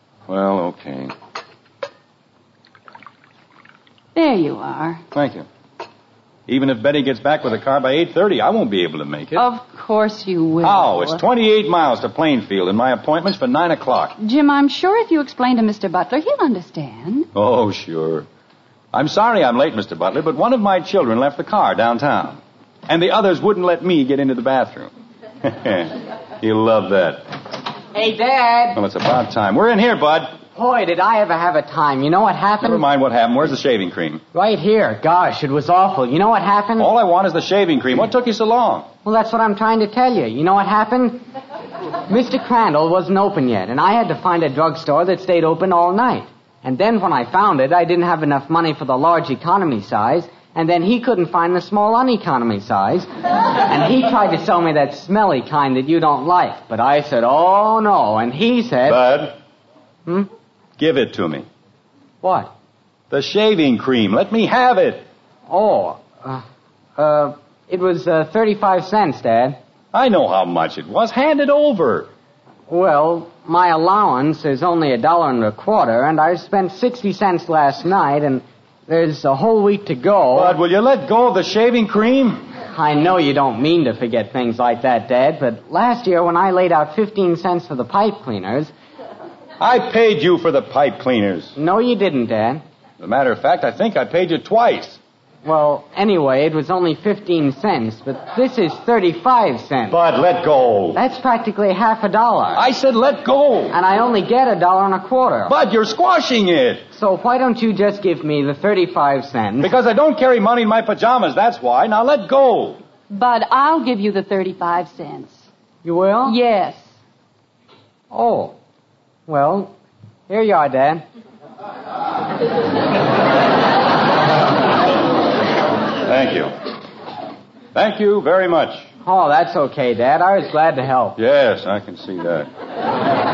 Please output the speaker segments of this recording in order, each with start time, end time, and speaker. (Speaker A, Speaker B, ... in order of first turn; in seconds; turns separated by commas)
Speaker A: 0.3-1.1, Speaker B: 4.2-5.0, Speaker A: 5.1-5.5, Speaker A: 6.5-9.4, Speaker B: 9.3-11.2, Speaker A: 10.6-14.2, Speaker B: 14.2-17.3, Speaker A: 17.3-18.3, Speaker A: 18.9-24.9, Speaker A: 25.4-27.2, Speaker C: 27.9-28.8, Speaker A: 28.8-30.4, Speaker C: 30.5-32.8, Speaker A: 32.6-34.2, Speaker C: 34.3-36.9, Speaker A: 36.8-38.9, Speaker C: 39.0-41.2, Speaker C: 42.1-59.0, Speaker A: 58.9-59.4, Speaker A: 60.8-61.5, Speaker C: 62.2-62.5, Speaker A: 63.1-65.1, Speaker C: 65.5-66.4, Speaker C: 67.0-69.6, Speaker A: 69.9-72.1, Speaker C: 72.7-80.6, Speaker A: 80.3-82.5, Speaker C: 82.7-88.7, Speaker A: 89.6-91.5, Speaker C: 91.6-92.6, Speaker A: 93.0-95.0, Speaker C: 95.4-100.0, Speaker A: 99.9-101.0, Speaker C: 100.9-102.7, Speaker A: 102.5-103.8, Speaker C: 103.7-105.5, Speaker A: 105.5-106.8, Speaker C: 106.9-109.7, Speaker A: 109.6-112.8, Speaker B: 113.1-115.5, Speaker C: 115.8-116.4, Speaker B: 116.2-116.9, Speaker C: 118.1-118.6, Speaker C: 119.3-119.8, Speaker C: 120.3-121.0, Speaker A: 126.0-126.5, Speaker A: 127.7-128.9, Speaker C: 129.0-131.2, Speaker A: 131.2-132.5